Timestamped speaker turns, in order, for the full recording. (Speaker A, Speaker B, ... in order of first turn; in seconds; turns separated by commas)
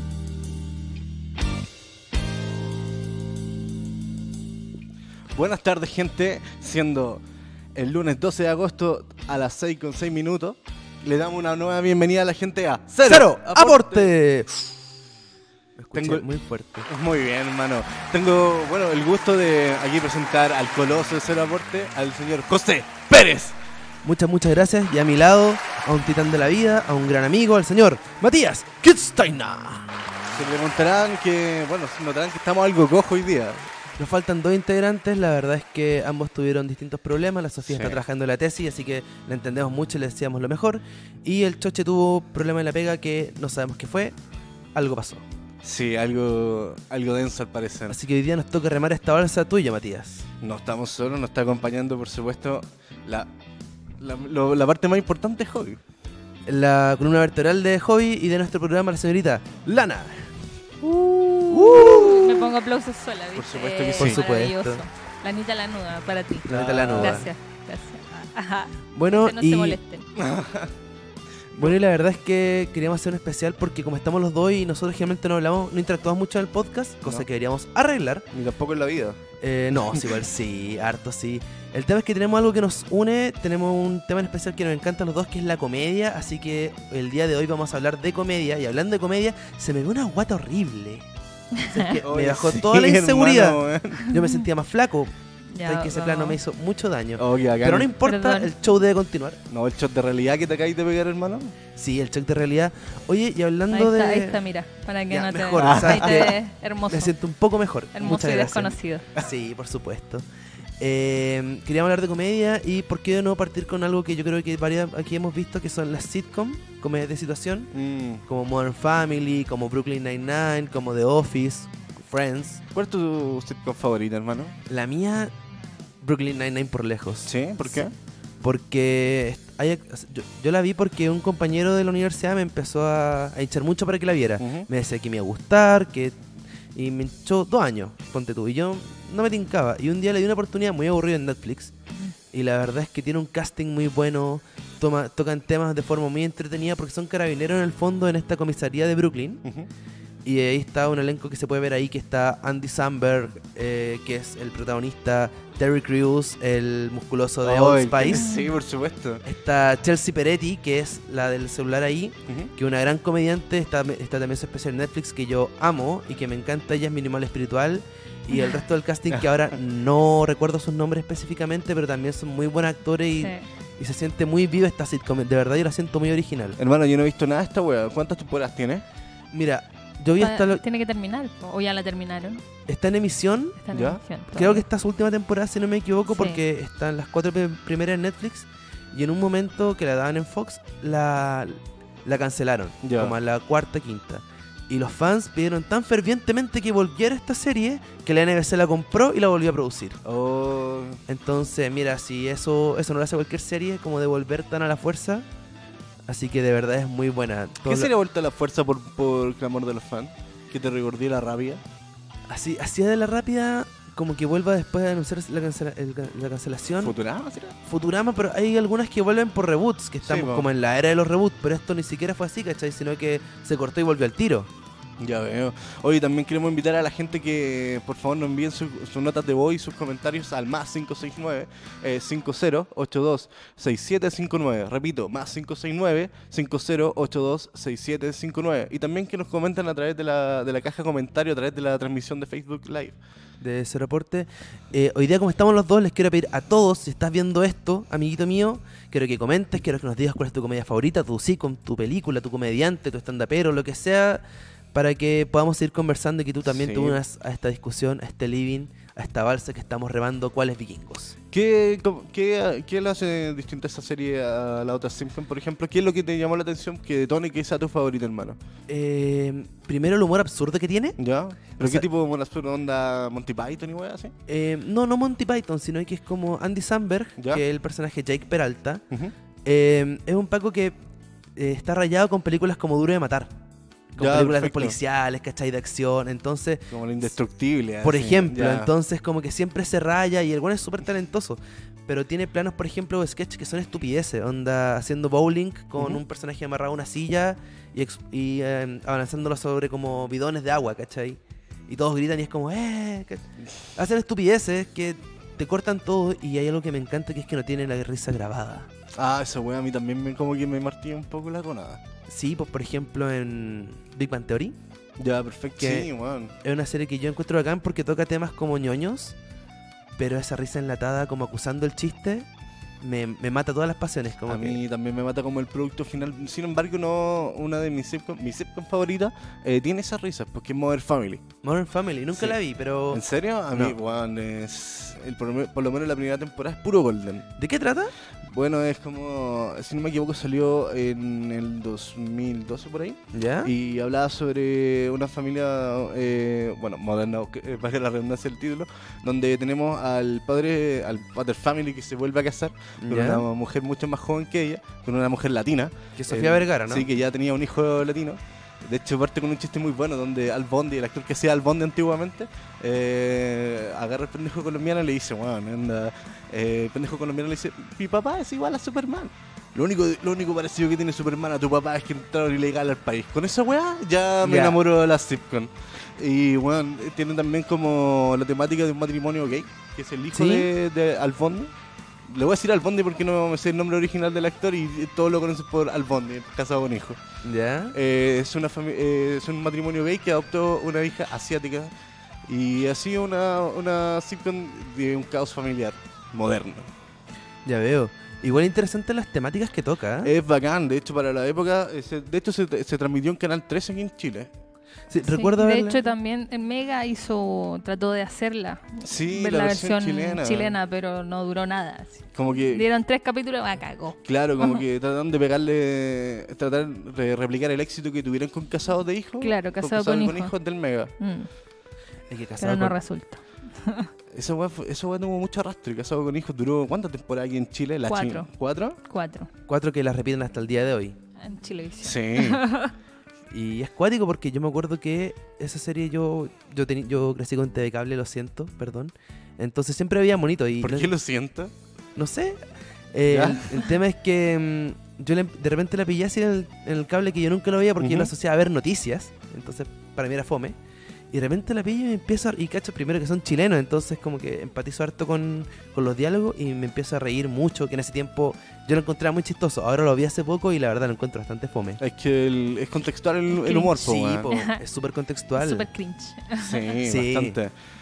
Speaker A: 5.3-7.2, Speaker A: 7.8-14.1, Speaker B: 13.0-14.7, Speaker B: 15.8-16.9, Speaker A: 15.9-16.3, Speaker A: 16.9-23.6, Speaker B: 24.0-29.9, Speaker A: 30.3-33.7, Speaker B: 34.0-44.2, Speaker A: 37.6-38.0, Speaker B: 44.8-45.2, Speaker A: 45.6-48.0, Speaker B: 47.9-50.3, Speaker A: 50.4-53.3, Speaker A: 54.0-55.8, Speaker B: 56.5-60.4, Speaker B: 61.5-62.5, Speaker A: 61.5-62.2, Speaker C: 61.8-70.1, Speaker A: 63.4-64.2, Speaker B: 64.0-64.8, Speaker B: 66.5-67.3, Speaker A: 66.5-67.3, Speaker B: 68.9-69.8, Speaker A: 70.2-70.7, Speaker B: 71.6-78.2, Speaker A: 78.3-79.2, Speaker B: 79.4-91.1, Speaker C: 91.6-91.9, Speaker B: 91.7-95.1, Speaker A: 91.9-94.1, Speaker C: 95.5-96.4, Speaker B: 95.6-99.4, Speaker A: 97.2-97.9, Speaker C: 98.0-98.5, Speaker A: 99.5-101.5, Speaker B: 101.8-104.4, Speaker C: 103.7-107.1, Speaker B: 105.1-106.4, Speaker A: 105.5-106.3, Speaker B: 106.9-110.2, Speaker C: 108.0-109.1, Speaker B: 110.8-117.7, Speaker A: 117.7-118.2, Speaker B: 118.3-122.6, Speaker A: 122.7-124.6, Speaker B: 124.7-125.3, Speaker B: 126.0-127.8, Speaker A: 127.3-127.9, Speaker B: 128.4-136.2, Speaker A: 134.4-134.7, Speaker B: 136.8-141.7, Speaker B: 142.3-149.4, Speaker B: 150.2-158.3, Speaker A: 157.4-159.2, Speaker C: 158.1-158.6, Speaker B: 159.2-176.6, Speaker C: 173.2-173.5, Speaker A: 176.6-178.8, Speaker B: 179.3-180.6, Speaker C: 180.2-182.4, Speaker B: 182.7-183.6, Speaker C: 183.6-184.6, Speaker A: 183.7-184.0, Speaker B: 184.3-200.0, Speaker C: 186.1-186.4, Speaker A: 192.8-193.2, Speaker A: 200.1-201.0, Speaker B: 201.1-205.3, Speaker B: 206.1-207.9, Speaker A: 207.6-211.6, Speaker B: 212.3-216.9, Speaker A: 216.8-217.6, Speaker B: 217.7-224.5, Speaker A: 220.0-220.5, Speaker A: 225.0-243.0, Speaker B: 243.4-261.1, Speaker A: 256.5-257.0, Speaker A: 261.3-268.4, Speaker B: 268.7-271.0, Speaker A: 271.0-274.1, Speaker B: 271.6-271.9, Speaker B: 274.3-278.8, Speaker A: 277.2-277.4, Speaker B: 279.4-280.8, Speaker B: 281.4-283.3, Speaker B: 283.9-286.7, Speaker A: 284.0-284.8, Speaker A: 286.7-288.7, Speaker B: 287.8-303.2, Speaker B: 303.8-308.7, Speaker A: 308.9-311.8, Speaker B: 312.1-314.6, Speaker A: 315.0-316.3, Speaker B: 315.6-315.9, Speaker B: 316.4-319.2, Speaker B: 320.0-322.3, Speaker B: 322.8-324.6, Speaker A: 324.3-331.2, Speaker B: 331.4-333.8, Speaker A: 332.9-337.3, Speaker B: 337.4-337.9, Speaker A: 338.2-381.5, Speaker B: 343.1-343.5, Speaker B: 352.8-353.2, Speaker B: 356.0-356.9, Speaker B: 374.2-374.6, Speaker B: 380.1-380.5, Speaker A: 382.1-387.0, Speaker B: 387.2-387.8, Speaker A: 387.7-391.7, Speaker A: 392.3-396.7, Speaker B: 397.4-400.1, Speaker A: 400.0-404.3, Speaker B: 404.9-405.8, Speaker C: 405.0-414.6, Speaker A: 408.8-410.6, Speaker A: 412.1-412.6, Speaker A: 414.1-420.9, Speaker C: 419.2-420.3, Speaker C: 421.0-421.3, Speaker B: 422.1-422.8, Speaker C: 422.4-423.9, Speaker A: 424.1-428.8, Speaker C: 427.9-428.3, Speaker C: 428.9-429.3, Speaker B: 429.5-431.0, Speaker C: 431.2-432.7, Speaker A: 431.8-432.4, Speaker B: 433.3-440.9, Speaker A: 440.6-441.5, Speaker B: 442.0-450.6, Speaker A: 443.1-443.7, Speaker A: 447.8-448.1, Speaker B: 451.1-461.8, Speaker A: 461.8-464.3, Speaker B: 463.5-465.6, Speaker C: 464.3-464.6, Speaker C: 465.4-466.7, Speaker A: 466.4-467.5, Speaker B: 466.8-467.4